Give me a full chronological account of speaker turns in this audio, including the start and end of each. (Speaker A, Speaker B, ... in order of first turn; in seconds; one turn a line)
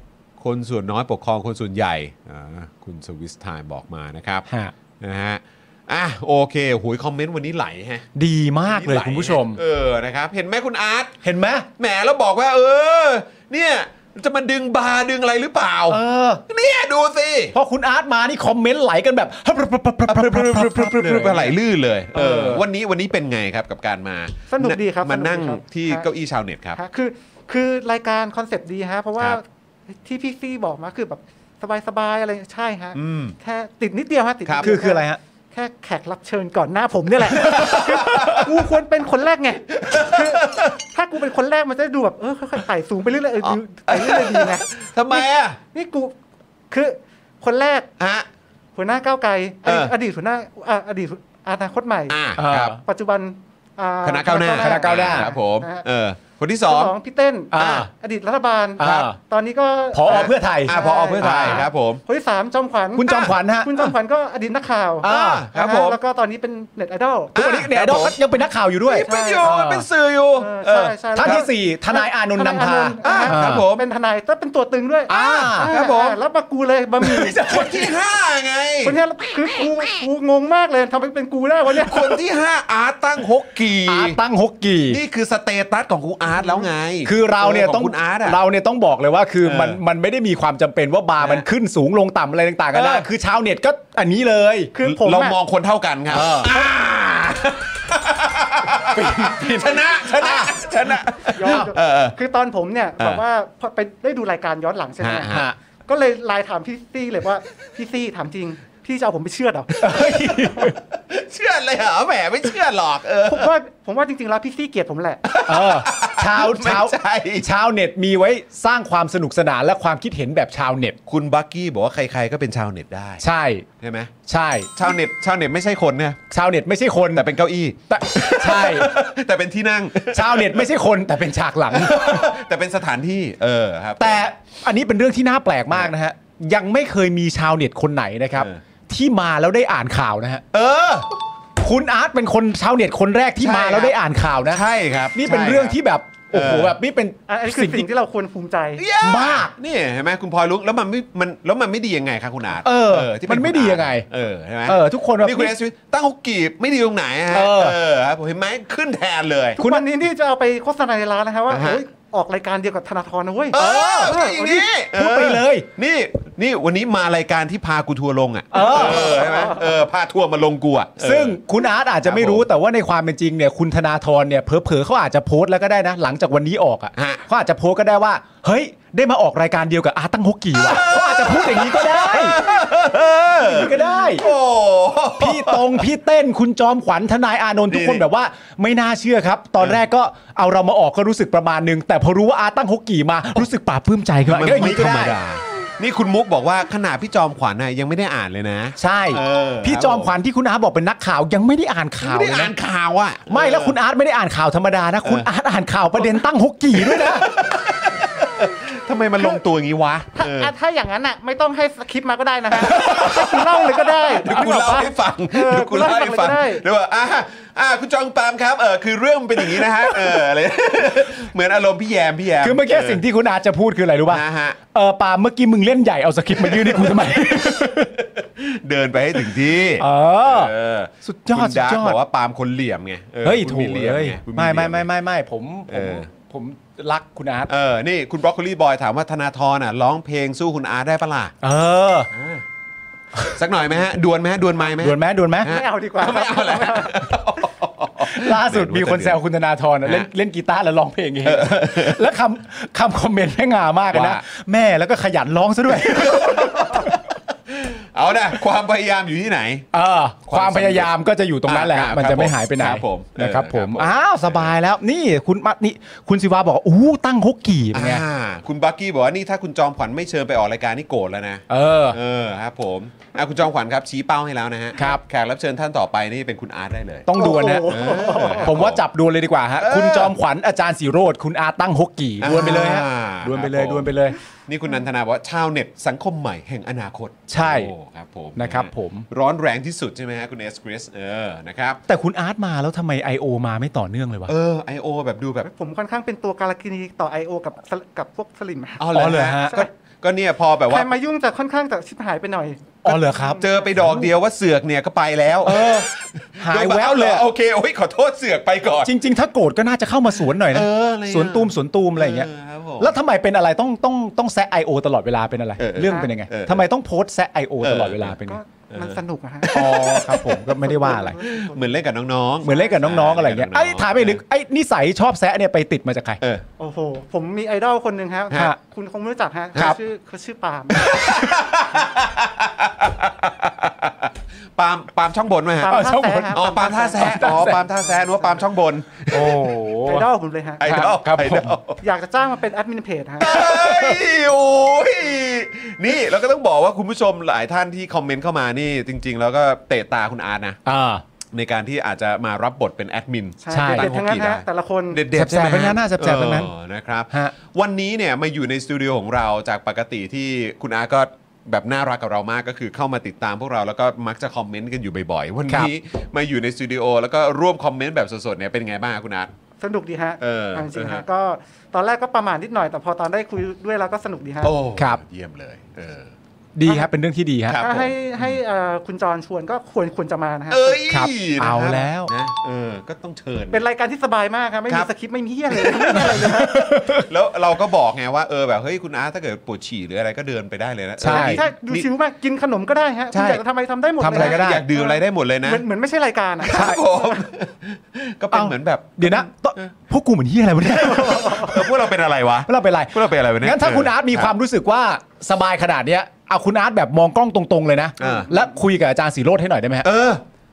Speaker A: 0.4-4.5
Speaker B: 4.5-4.7
Speaker A: 5.0-8.1
Speaker B: 8.1-9.6
Speaker A: 8.6-11.2
Speaker B: 11.2-11.7
Speaker A: 11.8-17.6
Speaker B: 15.9-16.4
Speaker B: 17.5-21.6
Speaker A: 20.1-26.8
Speaker B: 22.1-22.6
Speaker C: 24.5-26.1
Speaker C: 26.8-46.1
Speaker A: 32.9-33.4
Speaker A: 34.4-34.7
Speaker B: 34.6-35.2
Speaker A: 37.3-38.5
Speaker A: 39.7-40.8
Speaker A: 43.4-45.6
Speaker C: 46.7-47.9
Speaker A: 48.0-48.2
Speaker C: 48.8-52.1
Speaker A: 49.6-49.9
Speaker A: 52.1-52.7
Speaker B: 52.4-52.8
Speaker C: 52.8-55.9
Speaker A: 54.0-56.9
Speaker B: 54.6-55.3
Speaker C: 56.6-67.4
Speaker B: 57.5-57.9
Speaker B: 58.8-59.2
Speaker A: 58.8-59.1
Speaker B: 59.9-61.6
Speaker A: 60.0-62.0
Speaker B: 63.0-63.8
Speaker B: 65.0-65.5
Speaker A: 65.0-66.0
Speaker A: 67.3-68.2
Speaker B: 67.3-69.9
Speaker A: 68.9-71.5
Speaker C: 69.0-69.5
Speaker C: 70.4-77.4
Speaker B: 71.1-73.7
Speaker A: 73.0-73.8
Speaker B: 75.1-75.7
Speaker A: 75.2-76.2
Speaker B: 77.0-77.9
Speaker A: 77.4-79.0
Speaker C: 78.8-82.2
Speaker A: 81.8-84.2
Speaker B: 83.8-85.0
Speaker A: 84.8-88.4
Speaker C: 86.4-86.7
Speaker B: 87.0-94.7
Speaker A: 89.4-89.8
Speaker A: 91.2-91.5
Speaker A: 92.7-93.1
Speaker C: 94.7-95.4
Speaker A: 94.8-102.2
Speaker B: 96.1-96.5
Speaker B: 98.9-101.7
Speaker C: 101.3-109.8
Speaker A: 105.0-105.5
Speaker B: 105.3-105.5
Speaker B: 109.8-110.8
Speaker A: 109.8-113.5
Speaker C: 113.2-115.3
Speaker A: 115.2-117.5
Speaker B: 115.5-121.0
Speaker A: 121.0-123.2
Speaker B: 123.2-123.7
Speaker A: 123.8-124.1
Speaker B: 124.3-124.9
Speaker A: 124.7-126.2
Speaker B: 126.3-127.2
Speaker A: 127.1-130.7
Speaker B: 127.9-129.0
Speaker B: 130.1-132.3
Speaker A: 131.7-134.3
Speaker B: 134.0-140.4
Speaker A: 140.5-141.1
Speaker B: 141.6-147.9
Speaker A: 143.4-145.8
Speaker A: 146.3-146.8
Speaker C: 147.3-148.8
Speaker A: 148.8-159.6
Speaker B: 149.0-149.5
Speaker B: 152.6-154.1
Speaker B: 154.6-155.6
Speaker B: 157.3-157.8
Speaker C: 159.6-164.7
Speaker B: 159.6-159.8
Speaker A: 161.5-161.8
Speaker B: 163.5-164.2
Speaker A: 163.5-171.4
Speaker B: 164.9-165.7
Speaker B: 168.5-169.5
Speaker C: 168.6-169.8
Speaker B: 171.0-182.6
Speaker A: 172.0-172.5
Speaker A: 176.9-177.2
Speaker A: 180.6-185.8
Speaker B: 183.3-184.3
Speaker B: 185.2-195.2
Speaker A: 187.7-188.0
Speaker A: 194.2-200.2
Speaker B: 198.8-202.5
Speaker A: 202.0-203.8
Speaker B: 203.3-207.3
Speaker A: 206.7-210.5
Speaker C: 210.1-216.6
Speaker A: 212.6-223.0
Speaker B: 212.6-213.2
Speaker B: 219.5-220.2
Speaker B: 222.4-227.9
Speaker A: 224.1-224.6
Speaker A: 226.3-234.9
Speaker B: 229.8-232.0
Speaker B: 233.2-237.5
Speaker A: 235.7-236.1
Speaker A: 237.5-241.3
Speaker B: 241.4-242.1
Speaker A: 242.1-242.4
Speaker A: 243.3-249.2
Speaker B: 244.8-245.5
Speaker C: 245.4-247.1
Speaker B: 248.0-257.0
Speaker A: 251.2-252.1
Speaker A: 253.9-254.2
Speaker A: 255.7-259.6
Speaker B: 259.7-268.0
Speaker A: 260.2-260.9
Speaker A: 261.5-264.5
Speaker A: 267.7-278.8
Speaker B: 271.5-272.0
Speaker B: 274.8-275.0
Speaker B: 277.1-284.2
Speaker C: 277.2-278.6
Speaker A: 279.6-280.1
Speaker A: 282.2-291.8
Speaker B: 287.3-287.7
Speaker B: 288.4-289.1
Speaker B: 291.9-294.3
Speaker A: 294.3-295.5
Speaker C: 295.4-299.6
Speaker A: 298.8-300.9
Speaker B: 298.9-299.6
Speaker C: 300.7-303.6
Speaker B: 302.8-304.1
Speaker A: 302.9-308.9
Speaker B: 305.4-307.3
Speaker B: 308.8-318.4
Speaker A: 310.4-312.9
Speaker A: 315.6-316.6
Speaker C: 315.8-316.1
Speaker A: 317.6-318.1
Speaker C: 318.2-321.8
Speaker A: 318.7-324.2
Speaker B: 319.5-321.2
Speaker B: 322.4-326.2
Speaker C: 322.4-323.0
Speaker C: 326.6-331.4
Speaker A: 330.7-339.6
Speaker C: 335.6-338.4
Speaker B: 335.6-337.6
Speaker B: 339.1-340.1
Speaker C: 339.8-340.8
Speaker A: 340.6-341.8
Speaker B: 340.6-341.5
Speaker C: 341.8-343.4
Speaker A: 343.2-350.6
Speaker B: 343.4-344.0
Speaker B: 350.6-351.0
Speaker A: 351.3-369.3
Speaker C: 353.4-355.0
Speaker B: 353.5-353.9
Speaker B: 355.1-356.5
Speaker C: 369.6-374.5
Speaker A: 370.2-371.0
Speaker A: 374.4-376.1
Speaker B: 376.5-377.6
Speaker C: 376.6-376.9
Speaker A: 377.5-378.4
Speaker C: 377.6-380.8
Speaker A: 380.5-383.6
Speaker B: 380.9-382.1
Speaker C: 383.5-386.6
Speaker A: 385.5-391.9
Speaker B: 385.9-387.0
Speaker B: 391.0-391.4
Speaker C: 391.0-397.2
Speaker A: 393.1-393.4
Speaker B: 394.0-394.6
Speaker A: 394.1-395.6
Speaker A: 396.4-399.7
Speaker B: 396.4-396.8
Speaker B: 398.3-401.7
Speaker C: 400.7-401.6
Speaker A: 401.1-404.3
Speaker B: 402.4-409.9
Speaker A: 408.0-408.3
Speaker A: 409.8-410.2